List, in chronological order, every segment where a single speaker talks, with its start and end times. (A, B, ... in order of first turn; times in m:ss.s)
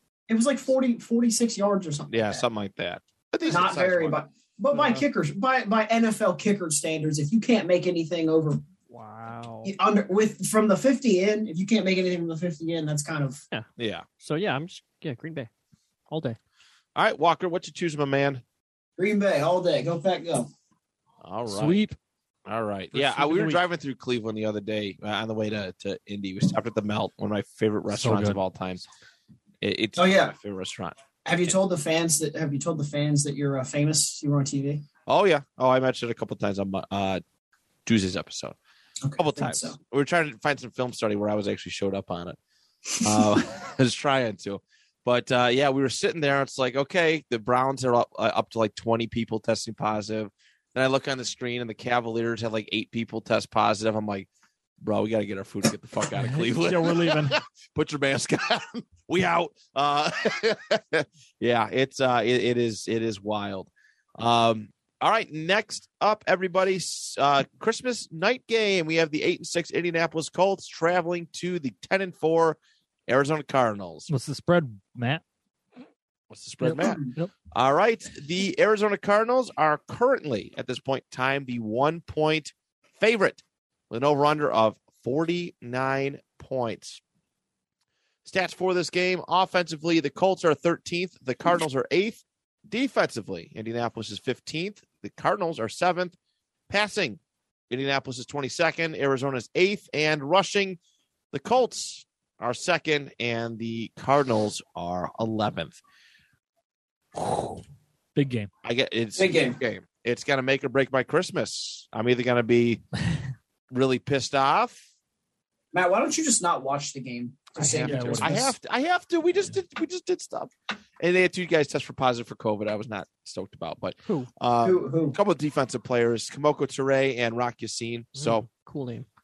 0:00.3-0:02.4 A
0:02.1-0:04.2 B
0:03.5-0:08.6 A
0:04.7-0:05.0 C
0:08.9-0:09.7 C
0:09.6-0:13.4 A
0:13.8-0:14.0 B
0:14.2-0:15.5 C
0:16.1-0:16.4 C
0:17.0-0:18.4 B
0:19.0-0:20.5 A
0:21.2-0:21.8 B
0:21.5-0:22.0 D
0:22.5-0:28.8 B
0:22.9-0:23.6 D
0:27.9-0:28.4 D
0:29.6-0:31.0 B
0:30.0-0:30.4 A
0:31.2-0:34.8 A
0:35.1-0:37.2 B
0:37.9-0:38.6 B
0:39.0-0:39.8 A
0:39.2-0:42.4 B
0:43.0-0:54.3 B
0:54.8-1:14.1 B
0:56.2-0:57.4 D
1:14.1-1:15.2 D
1:16.3-1:27.0 B
1:16.6-1:17.3 D
1:16.8-1:17.1 A
1:28.2-1:36.2 B
1:36.7-1:40.8 B
1:41.3-1:45.8 B
1:48.2-1:48.5 D
1:48.6-1:52.8 B
1:49.2-1:49.6 A
1:53.7-1:54.8 B
1:55.7-1:58.5 A
1:57.6-1:58.5 D
1:57.6-2:08.5 B
2:04.0-2:04.3 C
2:04.6-2:05.2 A
2:08.2-2:09.1 C